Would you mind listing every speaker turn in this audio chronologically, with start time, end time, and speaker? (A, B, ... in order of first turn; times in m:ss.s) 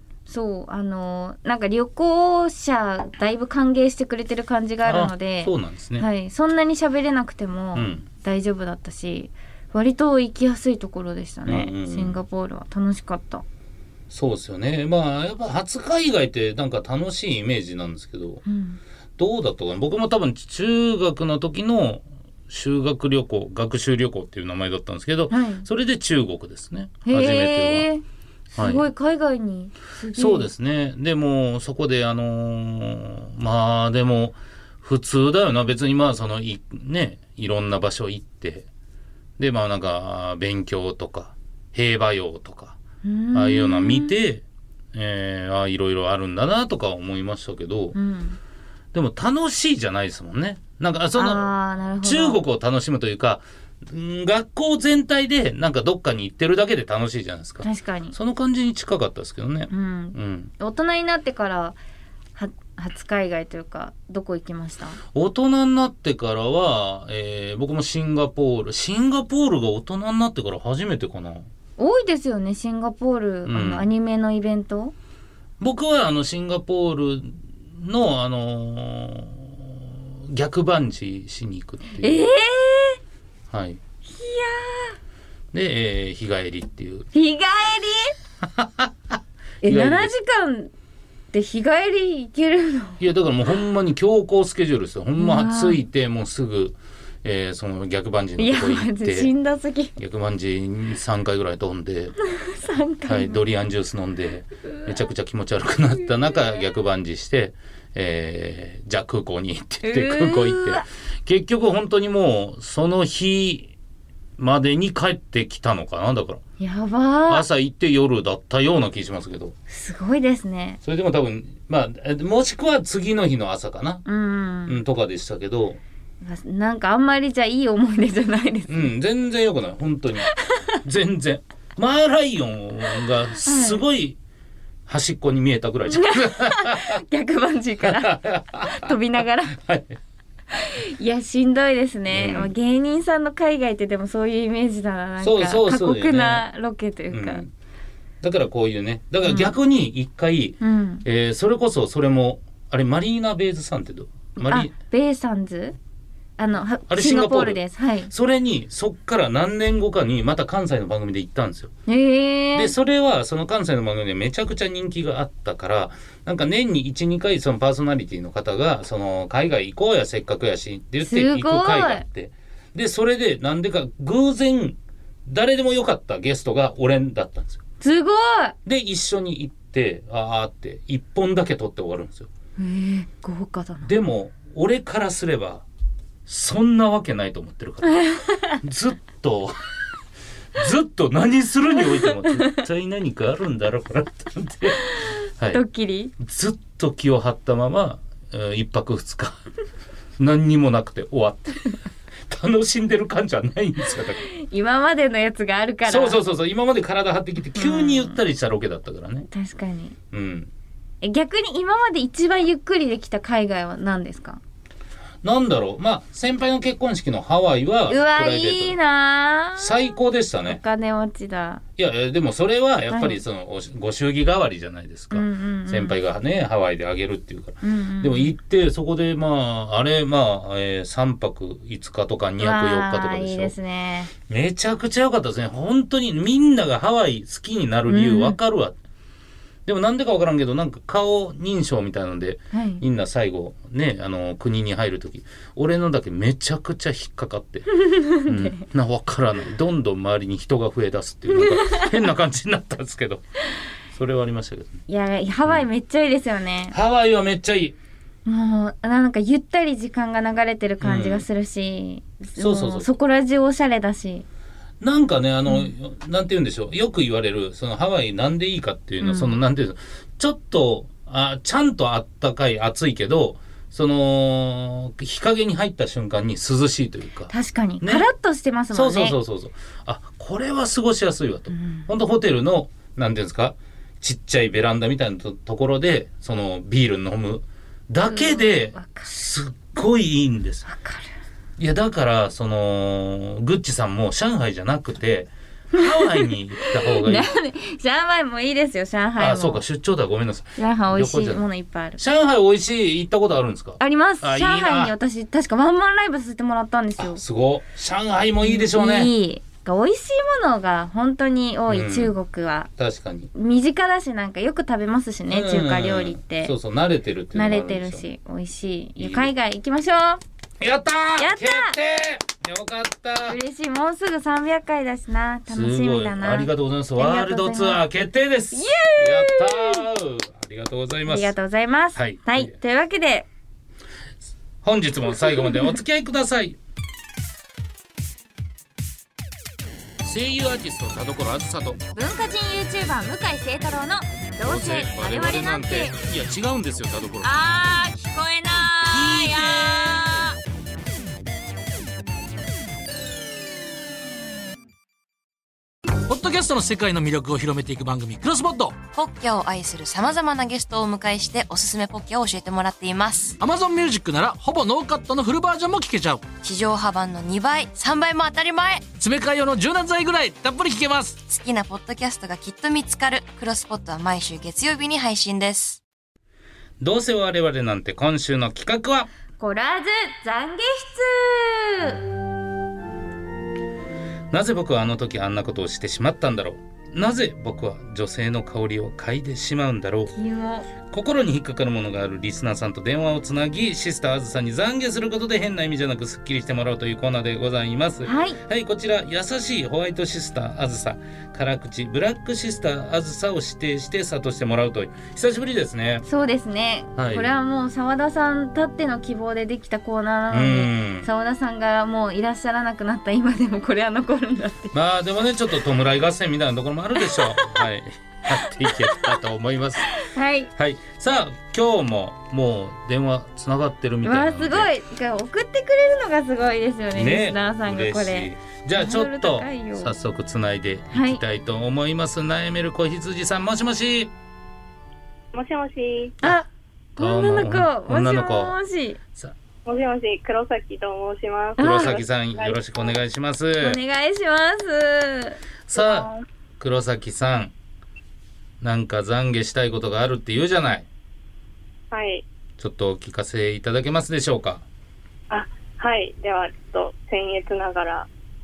0:00.3-0:13.4 A
0:04.8-0:06.1 B
0:07.8-0:08.0 B
0:11.5-0:12.2 B
0:14.1-0:18.4 B
0:18.4-0:18.8 A
0:19.2-0:27.9 B
0:25.3-0:25.7 A
0:27.0-0:28.0 A
0:28.6-0:28.9 B
0:28.6-0:30.5 A
0:30.1-0:38.7 B
0:39.4-0:42.8 B
0:43.0-0:44.2 A
0:43.3-0:48.0 B
0:47.9-0:48.4 A
0:48.9-1:00.5 B
0:51.2-0:52.4 A
0:57.6-0:58.2 A
0:59.7-1:01.8 A
1:02.4-1:05.0 A
1:05.1-1:11.5 B
1:11.8-1:14.9 A
1:13.5-1:13.9 B
1:15.6-1:22.2 B
1:22.0-1:23.0 A
1:23.5-1:23.8 B
1:24.1-1:25.0 A
1:25.5-1:27.1 B
1:27.1-1:28.2 A
1:28.4-1:30.1 B
1:29.6-1:30.7 A
1:31.3-1:33.0 A
1:33.0-1:39.3 B
1:35.2-1:35.8 A
1:38.4-1:39.9 A
1:40.0-1:42.2 B
1:42.3-1:43.4 A
1:43.1-1:53.7 B
1:49.8-1:50.9 A
1:54.4-1:56.4 B
1:56.6-1:57.4 A
1:57.3-1:59.6 B
1:59.7-2:00.8 A
2:00.8-2:04.0 B
2:04.0-2:04.8 A
2:04.7-2:05.8 B
2:06.2-2:08.9 A
2:08.7-2:10.3 B
2:10.4-2:10.8 A
2:10.8-2:14.2 B
2:13.4-2:13.8 A
2:14.9-2:17.0 B
2:15.9-2:19.6 A
2:17.8-2:19.0 B
2:19.5-2:20.0 B
2:20.5-2:27.4 A
2:22.1-2:22.5 B
2:25.2-2:26.4 B
2:27.1-2:27.5 B
2:28.2-2:34.7 B
2:29.3-2:29.5 A
2:30.6-2:31.0 A
2:34.4-2:35.8 A
2:36.4-2:38.1 A
2:36.9-2:41.7 B
2:41.9-2:42.7 A
2:42.6-2:57.6 B
2:51.0-2:52.0 A
2:57.8-2:58.6 A
2:58.7-3:02.3 B
3:02.6-3:03.9 A
3:03.8-3:05.6 B
3:06.3-3:08.0 B
3:07.9-3:08.6 A
3:08.6-3:09.6 B
3:10.6-3:14.8 B
3:12.2-3:12.6 A
3:15.0-3:16.1 A
3:15.4-3:15.6 B
3:16.2-3:19.4 B
3:20.2-3:24.2 B
3:24.2-3:26.2 A
3:25.9-3:29.3 B
3:27.6-3:28.2 A
3:29.3-3:30.0 A
3:30.1-3:30.5 B
3:31.0-3:34.4 A
3:35.2-3:38.8 B
3:37.9-3:39.9 A
3:39.6-3:40.6 B
3:40.4-3:41.6 A
3:41.8-3:53.5 B
3:42.9-3:43.2 A
3:45.1-3:46.0 A
3:47.6-3:48.3 A
3:52.4-3:54.1 A
3:54.3-3:58.8 B
3:57.9-3:58.4 A
3:59.7-4:13.2 B
4:02.5-4:02.8 A
4:07.8-4:08.6 A
4:11.4-4:11.9 A
4:13.9-4:14.8 B
4:14.9-4:16.8 A
4:16.7-4:17.8 B
4:18.3-4:24.3 A
4:20.8-4:21.2 B
4:22.4-4:22.9 B
4:24.8-4:38.1 B
4:29.0-4:29.4 A
4:37.3-4:39.2 A
4:38.7-4:50.7 B
4:41.5-4:41.9 A
4:48.1-4:49.1 A
4:50.7-4:51.1 A
4:51.6-4:57.3 B
4:55.7-4:59.6 A
4:59.2-5:01.4 B
5:00.6-5:02.0 A
5:02.0-5:04.9 B
5:03.8-5:07.2 A
5:07.0-5:09.1 B
5:08.4-5:12.7 A
5:11.7-5:12.1 B
5:12.8-5:13.3 B
5:13.3-5:16.5 A
5:15.3-5:18.1 B
5:17.3-5:20.2 A
5:19.0-5:19.3 B
5:20.6-5:23.4 B
5:21.2-5:21.8 A
5:23.2-5:27.8 A
5:25.5-5:31.3 B
5:28.5-5:29.8 A
5:31.1-5:33.3 A
5:32.0-5:32.6 B
5:34.6-5:36.6 B
5:40.0-5:41.8 B
5:42.0-5:46.0 A
5:44.4-5:47.3 B
5:47.2-5:50.4 A
5:48.9-5:50.1 B
5:56.1-5:58.8 C
5:58.9-6:03.4 D
6:03.4-6:06.3 C
6:06.4-6:08.9 D
6:09.0-6:11.2 C
6:11.3-6:15.8 D
6:16.8-6:19.1 B
6:19.4-6:22.0 A
6:24.3-6:30.1 B
6:30.1-6:30.7 A
6:30.9-6:46.0 B
6:38.0-6:38.4 A
6:46.0-6:54.8 A
6:47.0-6:47.3 B
6:50.3-6:51.1 B
6:54.7-6:59.9 B
6:57.1-6:57.6 A
6:59.9-7:00.5 A
7:00.6-7:04.7 B
7:04.0-7:10.0 A
7:07.0-7:14.1 B
7:10.9-7:11.2 A
7:15.3-7:16.2 E
7:17.0-7:19.0 A
7:17.0-7:18.6 B
7:19.7-7:22.9 E
7:21.6-7:22.0 A
7:21.6-7:23.8 B
7:23.6-7:25.4 A
7:25.7-7:27.5 B
7:25.8-7:26.2 E
7:28.6-7:30.9 B
7:31.9-7:32.2 E
7:32.6-7:34.6 B
7:35.3-7:38.1 E